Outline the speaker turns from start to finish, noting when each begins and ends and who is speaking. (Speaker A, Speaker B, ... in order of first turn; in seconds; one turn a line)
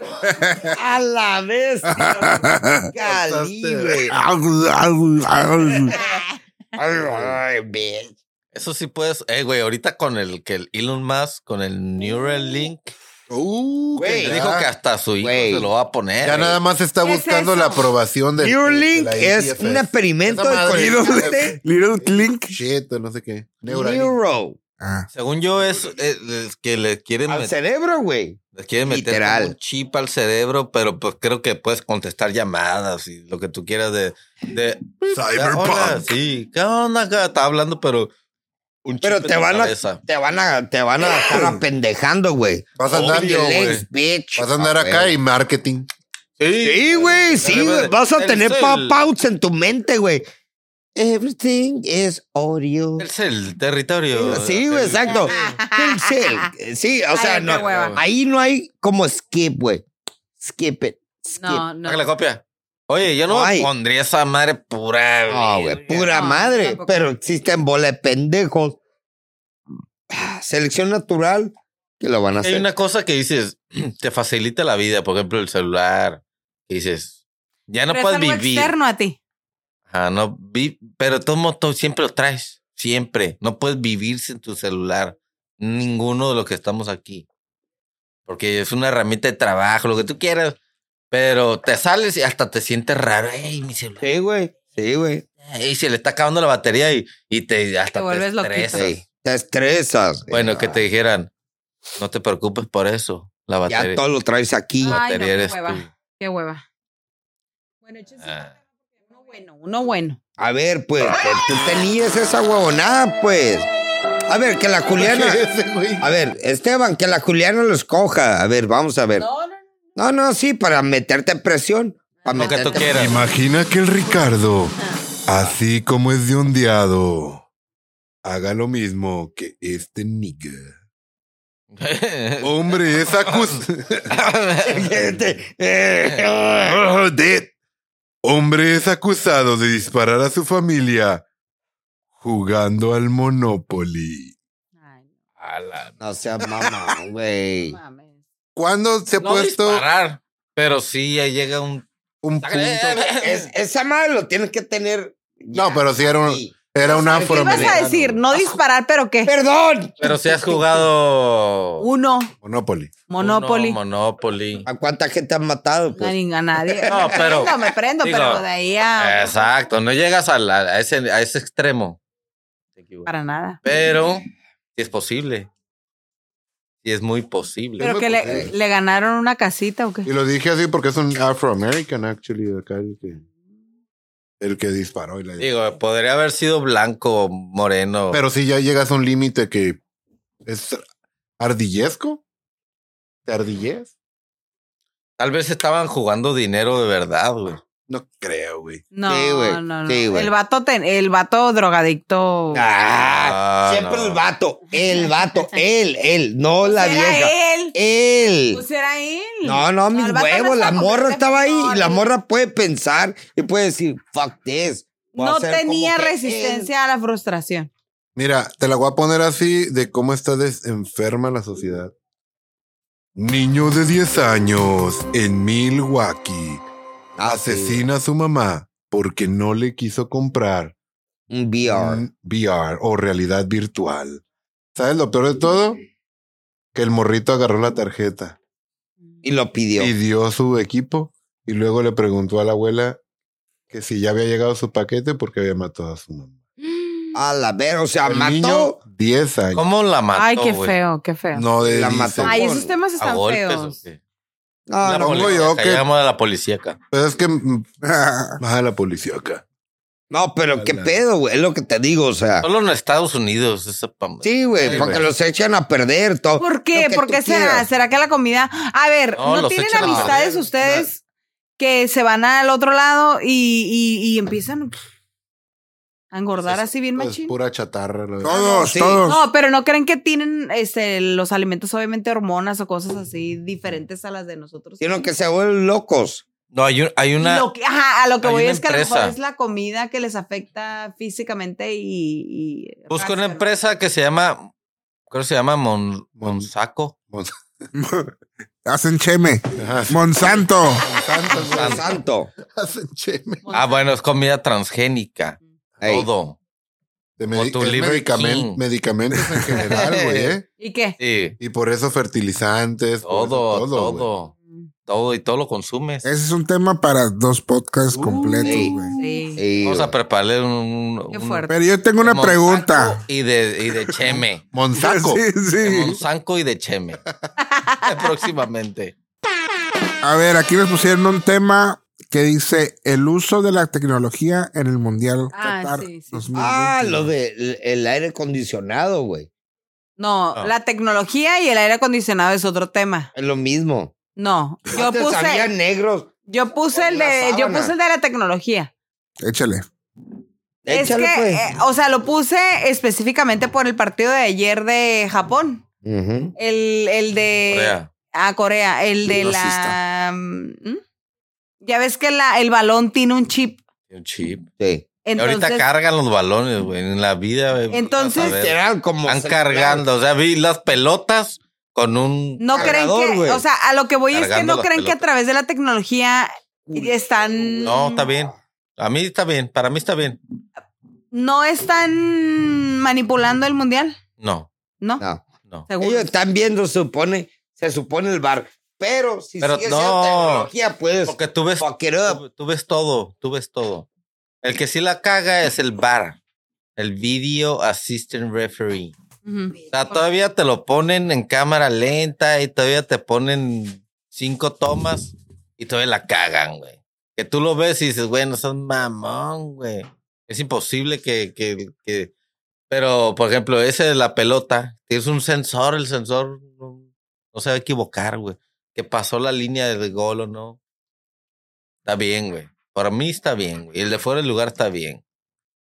Speaker A: 0.2-0.8
Speaker B: 0.7-2.4
Speaker A: 1.9-2.9
Speaker B: 2.9-4.1
Speaker C: 3.0-4.0
Speaker A: 4.1-6.0
Speaker B: 6.8-8.1
Speaker C: 7.0-7.4
Speaker D: 8.5-12.9
Speaker C: 13.3-14.7
Speaker B: 13.9-14.4
Speaker D: 14.2-16.6
Speaker B: 15.2-15.7
Speaker C: 16.2-21.4
Speaker E: 17.0-17.9
Speaker B: 18.4-21.6
Speaker A: 20.6-22.6
Speaker C: 22.0-24.1
Speaker B: 23.6-24.6
Speaker A: 24.8-25.1
Speaker D: 25.1-27.5
Speaker B: 27.3-29.5
Speaker D: 28.5-38.1
Speaker C: 35.0-36.1
Speaker D: 38.8-40.0
Speaker B: 39.0-45.1
Speaker C: 41.3-41.6
Speaker C: 42.8-43.5
Speaker D: 42.9-43.8
Speaker C: 44.4-45.9
Speaker D: 46.4-49.0
Speaker B: 46.6-50.2
Speaker B: 51.0-53.1
Speaker D: 53.0-55.5
Speaker B: 54.1-59.8
Speaker E: 55.1-56.5
Speaker E: 57.1-58.0
Speaker D: 57.4-58.0
Speaker B: 60.4-61.6
Speaker E: 61.4-62.0
Speaker D: 61.8-66.2
Speaker B: 63.3-63.7
Speaker B: 65.3-68.8
Speaker E: 66.1-67.0
Speaker B: 70.1-72.7
Speaker D: 72.4-78.7
Speaker E: 77.9-79.2
Speaker D: 79.9-87.2
Speaker D: 88.3-90.6
Speaker D: 91.1-94.0
Speaker B: 94.0-95.2
Speaker D: 95.5-99.0
Speaker E: 97.9-98.9
Speaker B: 98.7-100.8
Speaker D: 100.3-101.3
Speaker D: 102.0-104.0
Speaker B: 103.7-105.0
Speaker E: 104.8-106.6
Speaker D: 104.8-105.9
Speaker E: 107.8-110.2
Speaker D: 108.2-108.5
Speaker B: 110.4-113.7
Speaker B: 114.3-115.4
Speaker C: 115.0-116.1
Speaker B: 116.0-119.3
Speaker E: 119.2-119.6
Speaker B: 120.0-123.1
Speaker E: 122.2-122.9
Speaker D: 122.3-123.2
Speaker C: 122.9-127.4
Speaker C: 128.2-130.8
Speaker D: 131.7-134.9
Speaker C: 132.4-134.1
Speaker B: 134.6-136.8
Speaker C: 134.9-135.2
Speaker C: 136.7-137.5
Speaker C: 138.2-141.2
Speaker C: 142.2-144.3
Speaker E: 144.8-145.1
Speaker D: 145.4-145.9
Speaker B: 146.0-147.8
Speaker E: 147.6-148.2
Speaker C: 148.6-149.8
Speaker D: 149.2-151.9
Speaker C: 152.2-153.0
Speaker D: 152.4-153.5
Speaker B: 153.0-157.8
Speaker C: 155.5-158.2
Speaker E: 157.2-159.3
Speaker B: 159.2-160.8
Speaker D: 160.0-161.9
Speaker E: 161.8-162.3
Speaker C: 162.4-162.9
Speaker E: 163.1-163.8
Speaker D: 163.2-164.7
Speaker B: 164.7-167.4
Speaker E: 166.0-169.4
Speaker D: 166.9-168.4
Speaker D: 169.0-172.0
Speaker D: 172.8-173.1
Speaker E: 173.1-173.6
Speaker D: 173.6-175.5
Speaker D: 176.8-177.9
Speaker C: 177.8-178.5
Speaker E: 177.8-180.1
Speaker C: 180.0-183.2
Speaker C: 184.4-185.5
Speaker D: 185.4-188.2
Speaker C: 188.1-189.8
Speaker C: 190.4-190.8
Speaker C: 191.4-192.2
Speaker C: 193.2-193.9
Speaker D: 195.2-197.6
Speaker C: 197.9-198.9
Speaker E: 198.9-202.7
Speaker B: 199.0-200.3
Speaker B: 202.5-208.6
Speaker D: 202.9-204.2
Speaker E: 206.6-207.7
Speaker E: 208.5-212.1
Speaker B: 209.4-216.7
Speaker E: 215.1-217.7
Speaker C: 218.2-221.9
Speaker C: 223.1-226.6
Speaker B: 227.2-227.9
Speaker C: 227.2-230.7
Speaker B: 231.3-232.0
Speaker C: 231.6-234.2
Speaker C: 234.7-235.8
Speaker C: 236.7-238.4
Speaker B: 239.2-239.9
Speaker C: 239.8-243.0
Speaker C: 243.7-246.4
Speaker E: 246.6-247.2
Speaker B: 247.1-248.8
Speaker C: 248.1-249.7
Speaker D: 249.5-250.8
Speaker E: 250.1-251.4
Speaker C: 251.3-252.6
Speaker B: 251.6-252.7
Speaker E: 252.2-253.8
Speaker D: 253.0-254.0
Speaker B: 254.7-255.4
Speaker D: 254.8-256.8
Speaker C: 254.8-255.8
Speaker C: 256.9-257.7
Speaker A: 257.8-258.4
Speaker C: 258.4-259.4
Speaker B: 260.1-262.5
Speaker C: 260.5-261.0
Speaker D: 262.4-265.1
Speaker B: 264.2-267.7
Speaker C: 264.6-265.1
Speaker E: 266.4-271.0
Speaker D: 269.1-270.2
Speaker C: 269.8-270.9
Speaker E: 271.6-274.8
Speaker E: 276.1-277.3
Speaker D: 276.4-276.6
Speaker C: 276.9-278.6
Speaker A: 278.2-279.2
Speaker E: 278.3-285.1
Speaker B: 278.6-279.0
Speaker B: 284.8-286.2
Speaker D: 286.5-287.5
Speaker E: 287.2-293.5
Speaker D: 288.2-289.1
Speaker D: 292.9-294.5
Speaker D: 295.1-296.9
Speaker C: 296.2-296.5
Speaker C: 297.1-297.4
Speaker A: 297.8-298.1
Speaker A: 298.6-300.9
Speaker C: 299.6-303.5
Speaker B: 301.3-302.3
Speaker E: 303.4-303.8
Speaker D: 303.5-306.4
Speaker B: 305.8-306.1
Speaker C: 307.2-310.5
Speaker D: 307.3-308.6
Speaker A: 309.2-309.9
Speaker D: 309.6-310.3
Speaker E: 310.6-310.9
Speaker D: 311.0-311.4
Speaker C: 311.4-314.1
Speaker D: 313.0-314.3
Speaker D: 314.9-316.1
Speaker A: 316.0-319.0
Speaker C: 317.9-318.7
Speaker B: 318.4-318.8
Speaker E: 318.9-319.4
Speaker B: 319.4-319.9
Speaker D: 319.6-321.5
Speaker E: 321.1-321.5
Speaker A: 321.5-323.0
Speaker D: 322.0-324.4
Speaker A: 323.9-324.2
Speaker C: 324.5-325.2
Speaker A: 324.7-326.0
Speaker D: 325.6-327.0
Speaker E: 327.4-328.1
Speaker D: 327.8-328.9
Speaker A: 330.0-337.1
Speaker E: 335.3-336.2
Speaker B: 336.3-339.3
Speaker E: 340.0-343.1
Speaker B: 343.1-343.9
Speaker E: 344.1-345.5
Speaker B: 344.7-346.1
Speaker E: 346.3-348.7
Speaker B: 346.7-347.7
Speaker A: 349.2-349.6
Speaker B: 350.6-351.4
Speaker E: 350.7-355.6
Speaker B: 355.8-356.3
Speaker E: 356.4-360.8
Speaker D: 357.5-357.9
Speaker A: 359.1-359.8
Speaker E: 361.6-363.6
Speaker D: 363.9-364.5
Speaker B: 364.6-364.8
Speaker E: 365.0-365.6
Speaker D: 365.2-372.8
Speaker E: 367.7-368.4
Speaker B: 368.1-369.8
Speaker E: 372.4-378.1
Speaker B: 372.5-373.4
Speaker D: 374.1-375.0
Speaker B: 376.7-378.3
Speaker D: 377.6-380.2
Speaker E: 381.1-384.0
Speaker D: 384.2-384.5
Speaker E: 385.7-386.1
Speaker B: 385.8-392.2
Speaker D: 389.4-390.5
Speaker D: 391.1-393.9
Speaker D: 394.4-396.2
Speaker D: 396.8-398.9
Speaker E: 399.2-400.0
Speaker D: 399.7-412.1
Speaker D: 412.7-420.6
Speaker D: 421.8-425.0